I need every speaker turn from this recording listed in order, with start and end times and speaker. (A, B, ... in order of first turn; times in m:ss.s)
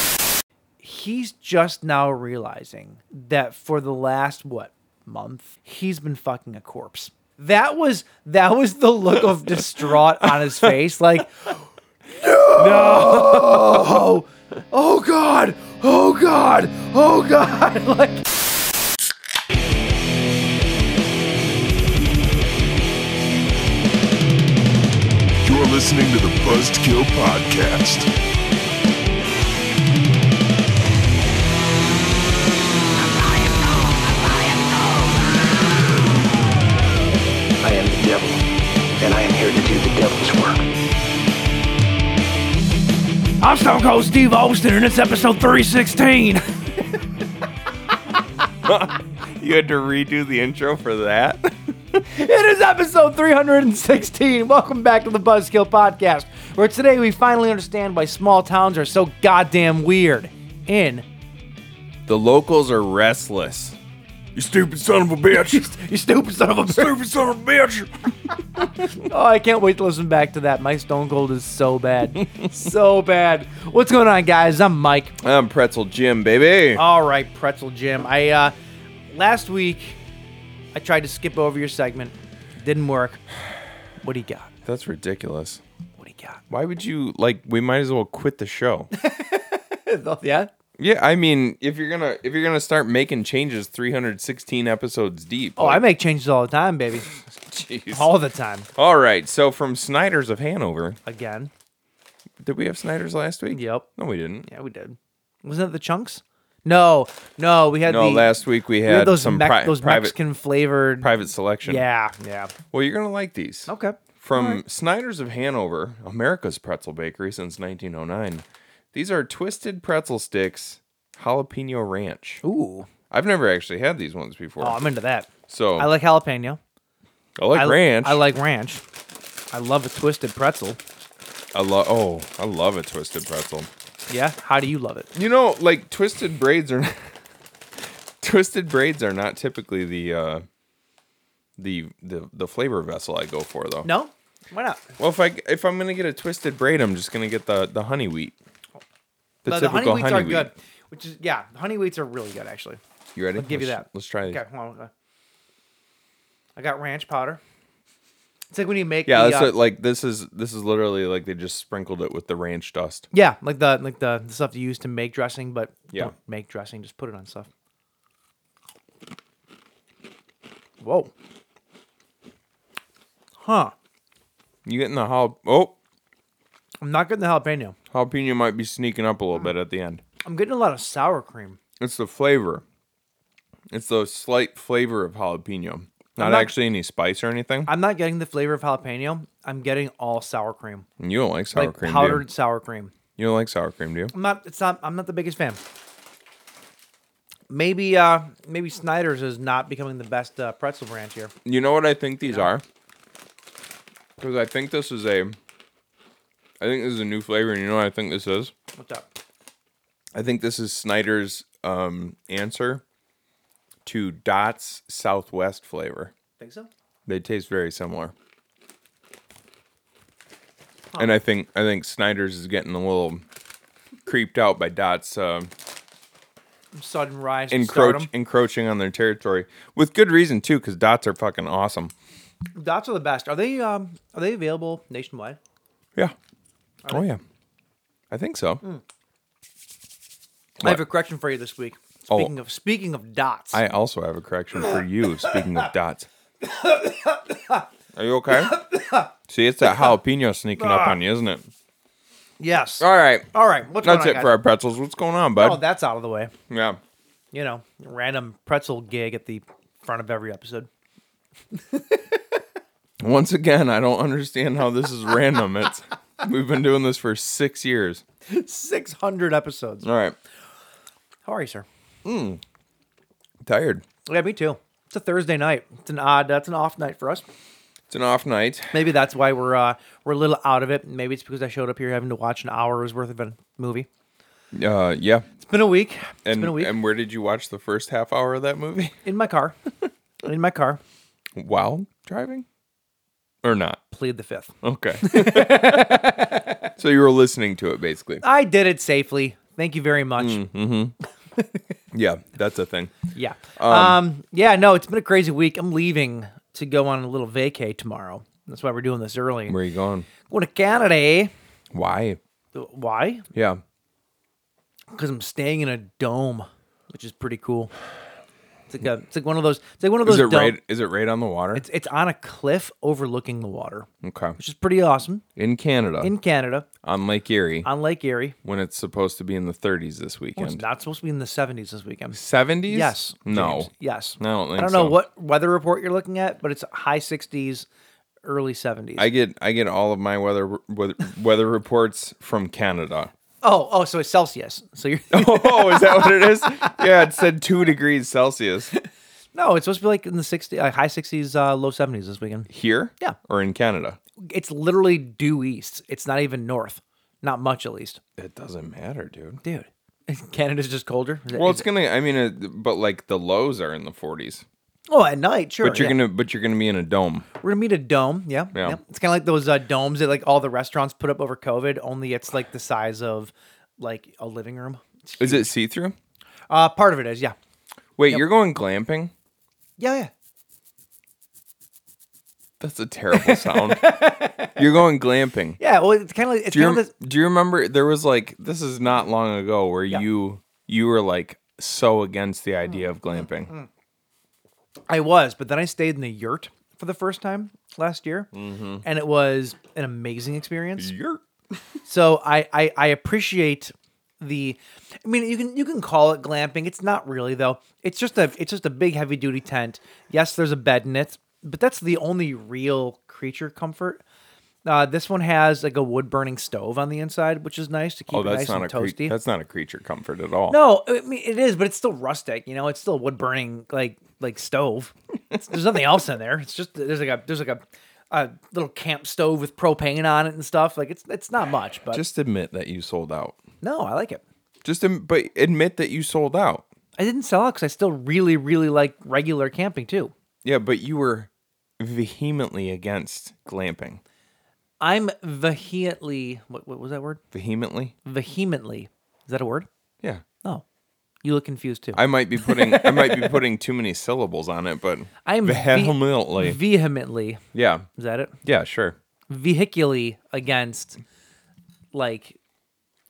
0:00.8-0:11.6 A
0:12.2-0:18.2 A
0:12.6-0:14.0 B
0:25.4-0:28.1 C
0:37.6-0:38.4 D
0:39.0-0:40.6 D
0:43.4-0:47.1 A
0:48.6-0:52.0 B
0:52.1-1:01.0 A
1:02.1-1:03.8 B
1:04.4-1:05.7 B
1:05.5-1:07.1 A
1:06.8-1:07.9 B
1:08.8-1:15.1 A
1:15.2-1:16.8 B
1:16.8-1:18.6 A
1:19.1-1:20.0 A
1:20.8-1:23.2 A
1:24.0-1:24.5 A
1:24.6-1:25.6 B
1:26.0-1:26.4 A
1:26.5-1:28.9 B
1:28.9-1:30.5 A
1:30.8-1:35.8 B
1:35.6-1:37.1 A
1:37.4-1:38.1 B
1:37.9-1:38.7 A
1:38.8-1:41.0 B
1:41.1-1:41.5 A
1:42.4-1:44.5 B
1:43.5-1:43.9 A
1:44.5-1:48.3 A
1:47.8-1:50.2 B
1:48.8-1:51.1 A
1:51.0-1:51.8 B
1:51.6-1:52.5 A
1:52.7-2:02.4 B
1:53.7-1:54.6 A
2:02.4-2:02.9 A
2:03.1-2:04.8 B
2:04.6-2:06.6 A
2:05.5-2:05.9 B
2:07.4-2:08.2 B
2:07.5-2:08.8 A
2:09.5-2:10.8 A
2:11.5-2:13.7 B
2:14.1-2:15.1 A
2:15.1-2:17.1 B
2:18.2-2:20.4 B
2:21.6-2:23.9 B
2:23.8-2:24.9 A
2:25.0-2:28.4 B
2:29.4-2:30.5 B
2:29.5-2:32.8 A
2:33.2-2:34.4 B
2:33.4-2:34.9 A
2:36.6-2:37.4 A
2:38.5-2:39.5 A
2:39.1-2:43.1 B
2:43.1-2:47.5 A
2:50.8-2:51.1 A
2:53.4-2:53.7 A
2:54.6-2:55.8 B
2:56.8-2:57.8 A
2:57.9-3:00.0 B
3:00.2-3:01.6 A
3:01.8-3:02.6 B
3:03.7-3:07.7 B
3:06.2-3:06.5 A
3:07.7-3:10.9 A
3:11.0-3:12.2 B
3:11.5-3:12.9 A
3:13.2-3:14.1 B
3:14.1-3:15.6 A
3:17.5-3:21.3 A
3:21.4-3:22.6 B
3:24.2-3:25.4 B
3:26.6-3:28.5 B
3:28.8-3:29.1 A
3:30.1-3:32.8 B
3:33.8-3:36.1 B
3:36.4-3:36.7 A
3:37.1-3:38.1 B
3:41.0-3:43.2 B
3:44.1-3:45.5 B
3:46.7-3:48.1 A
3:47.5-3:51.9 B
3:52.6-3:55.4 A
3:56.9-3:57.2 B
3:58.1-3:58.6 B
4:00.6-4:03.6 A
4:03.5-4:06.1 B
4:06.4-4:07.7 A
4:07.9-4:08.6 B
4:08.4-4:09.1 A
4:09.3-4:11.5 B
4:09.6-4:10.0 A
4:10.6-4:11.0 A
4:12.4-4:14.3 A
4:12.8-4:13.3 B
4:13.8-4:15.6 B
4:15.4-4:16.3 A
4:16.5-4:16.8 B
4:17.3-4:20.7 A
4:21.5-4:22.2 A
4:23.0-4:28.0 B
4:28.3-4:29.9 A
4:29.8-4:30.2 B
4:31.2-4:31.7 A
4:32.0-4:32.4 B
4:33.4-4:33.8 B
4:34.1-4:37.2 A
4:37.9-4:38.7 B
4:38.7-4:43.9 A
4:44.5-4:45.3 B
4:45.4-4:46.7 A
4:46.2-4:49.0 B
4:49.0-4:49.6 A
4:50.2-4:50.8 A
4:51.4-4:52.5 B
4:53.4-4:53.8 B
4:53.9-4:56.7 A
4:54.6-4:56.2 B
4:56.8-4:58.2 B
4:58.2-5:00.4 A
5:00.2-5:00.9 B
5:01.4-5:01.6 A
5:01.9-5:03.0 B
5:03.1-5:09.6 A
5:03.6-5:04.0 B
5:09.5-5:10.1 B
5:10.3-5:11.3 A
5:11.7-5:12.2 B
5:12.6-5:13.2 A
5:13.4-5:13.6 B
5:14.9-5:17.7 A
5:18.7-5:20.6 A
5:20.0-5:21.6 B
5:21.5-5:25.2 A
5:24.0-5:24.4 B
5:25.4-5:26.1 B
5:26.0-5:26.7 A
5:26.8-5:27.7 B
5:27.6-5:28.4 A
5:28.4-5:30.6 B
5:30.4-5:37.7 A
5:32.1-5:35.0 B
5:38.2-5:39.1 A
5:39.0-5:43.1 B
5:43.4-5:46.9 A
5:45.1-5:48.7 B
5:49.3-5:52.5 A
5:52.5-5:54.0 B
5:54.2-5:58.0 A
5:58.2-5:59.4 B
5:59.4-6:01.7 A
6:01.3-6:04.4 B
6:04.9-6:06.0 A
6:05.6-6:07.3 B
6:07.4-6:15.5 A
6:08.5-6:08.8 B
6:15.2-6:16.0 B
6:16.5-6:17.4 A
6:18.0-6:19.1 B
6:19.8-6:20.1 A
6:22.6-6:24.0 B
6:23.1-6:24.6 A
6:24.6-6:25.6 B
6:25.6-6:26.9 A
6:26.5-6:33.5 B
6:34.9-6:38.3 A
6:38.3-6:38.8 B
6:38.8-6:40.9 A
6:40.8-6:41.2 B
6:41.8-6:54.0 A
6:54.6-6:59.2 A
6:58.1-7:00.6 B
7:00.5-7:12.0 A
7:11.9-7:13.4 B
7:13.6-7:14.2 A
7:14.6-7:16.6 B
7:17.0-7:20.1 A
7:20.4-7:24.0 B
7:24.8-7:27.2 A
7:27.3-7:27.9 B
7:28.0-7:29.7 A
7:31.2-7:33.4 A
7:32.0-7:36.6 B
7:35.2-7:37.4 A
7:37.5-7:37.9 B
7:38.0-7:38.4 A
7:38.4-7:39.0 B
7:39.3-7:41.0 A
7:41.9-7:42.4 A